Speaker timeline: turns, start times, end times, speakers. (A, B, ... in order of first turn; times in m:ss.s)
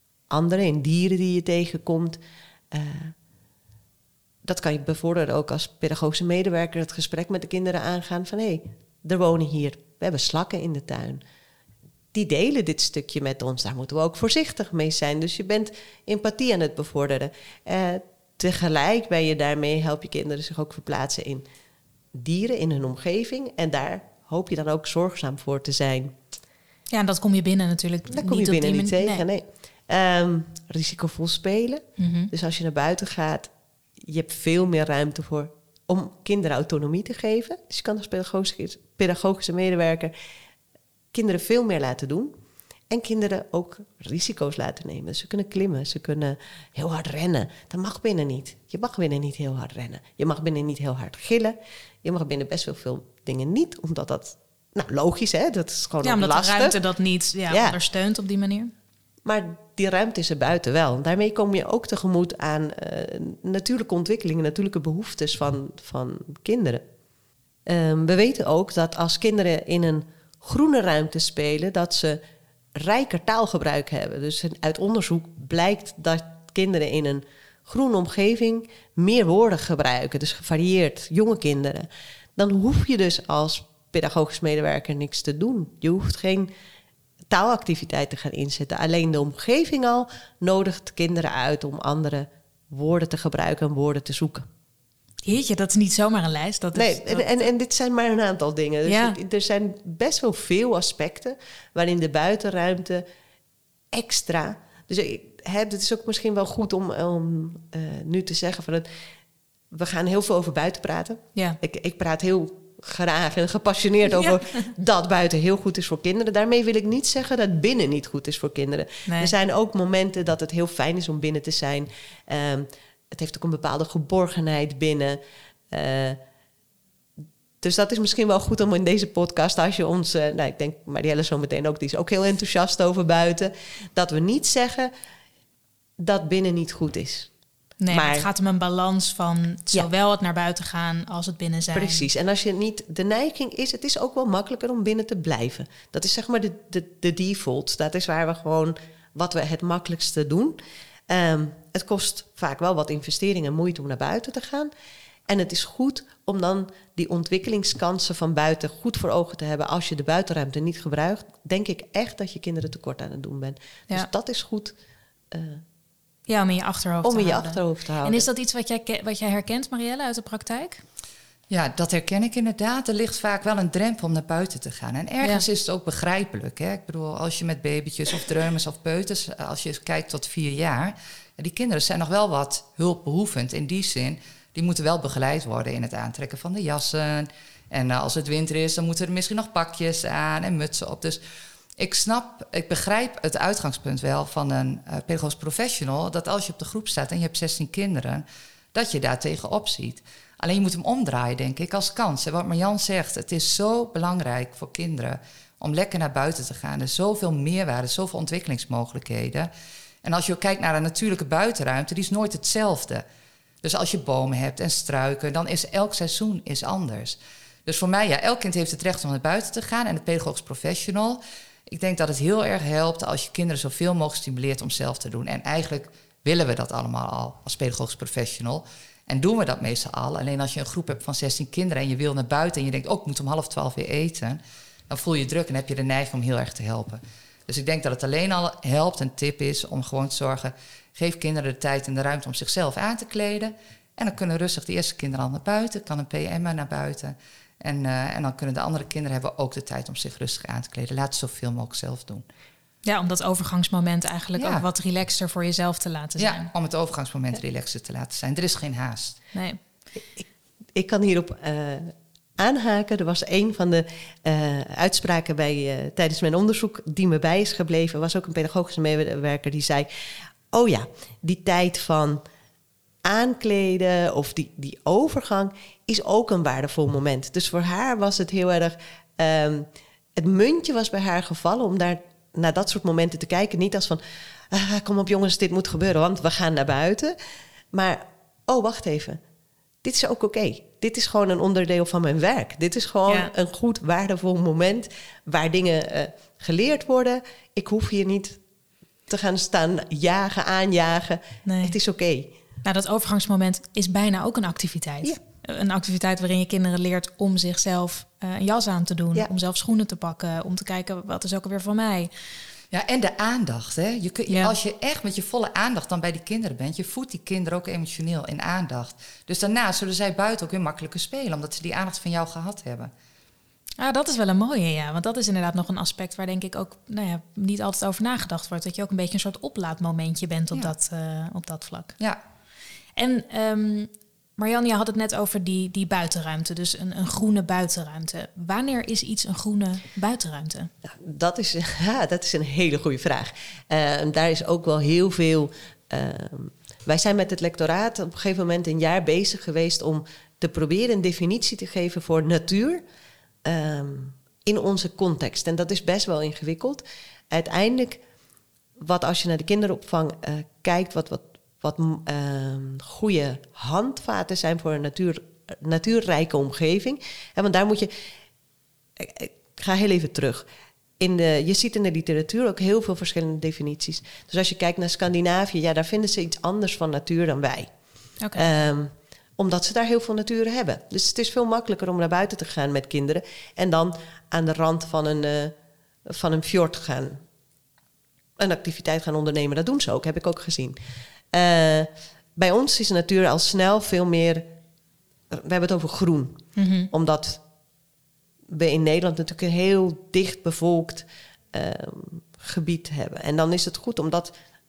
0:00.3-0:02.2 A
0:02.7-0:03.1 A
0:04.4-0:11.2 A
0:12.1-0:21.4 A
0:22.1-0:26.2 A
0:26.9-0:29.2 B
0:28.1-0:40.1 A
0:32.0-0:32.3 B
0:41.1-0:42.4 A
0:42.9-0:56.8 A
0:56.0-0:58.7 B
0:57.5-0:57.8 A
0:59.2-1:06.8 A
1:07.6-1:12.2 A
1:12.7-1:26.5 A
1:27.3-1:34.5 A
1:35.2-1:37.4 B
1:36.7-1:43.0 A
1:38.8-1:39.2 B
1:43.9-1:48.9 A
1:49.7-2:05.2 A
1:54.1-1:54.7 B
1:59.0-1:59.3 B
2:05.7-2:06.2 A
2:07.6-2:14.9 A
2:16.0-2:17.3 A
2:17.8-2:22.1 B
2:17.9-2:18.3 A
2:21.7-2:34.7 A
2:35.3-2:44.8 A
2:45.3-2:45.6 A
2:46.3-2:50.8 B
2:47.0-2:48.2 A
2:51.5-3:11.2 C
3:11.8-3:29.5 C
3:30.0-3:33.0 C
3:33.6-4:12.2 C
4:12.8-4:16.5 B
4:14.4-4:14.6 C
4:16.2-4:19.2 C
4:19.3-4:19.6 B
4:20.2-4:29.9 A
4:30.5-4:32.2 A
4:33.0-4:47.1 A
4:47.7-4:49.2 A
4:49.8-4:58.4 A
4:59.1-5:02.3 A
5:01.4-5:01.8 B
5:02.6-5:12.1 B
5:12.7-5:22.9 C
5:14.3-5:14.5 B
5:23.8-5:31.9 B
5:33.0-5:40.7 B
5:40.8-5:52.8 A
5:53.4-5:58.0 A
5:58.8-6:07.9 A
6:09.0-6:10.5 A
6:11.0-6:17.7 A
6:18.2-6:18.4 B
6:18.3-6:25.5 A
6:26.0-6:27.2 A
6:28.4-6:30.8 A
6:31.3-6:34.5 A
6:35.3-6:37.4 A
6:36.6-6:36.9 B
6:38.5-6:44.3 A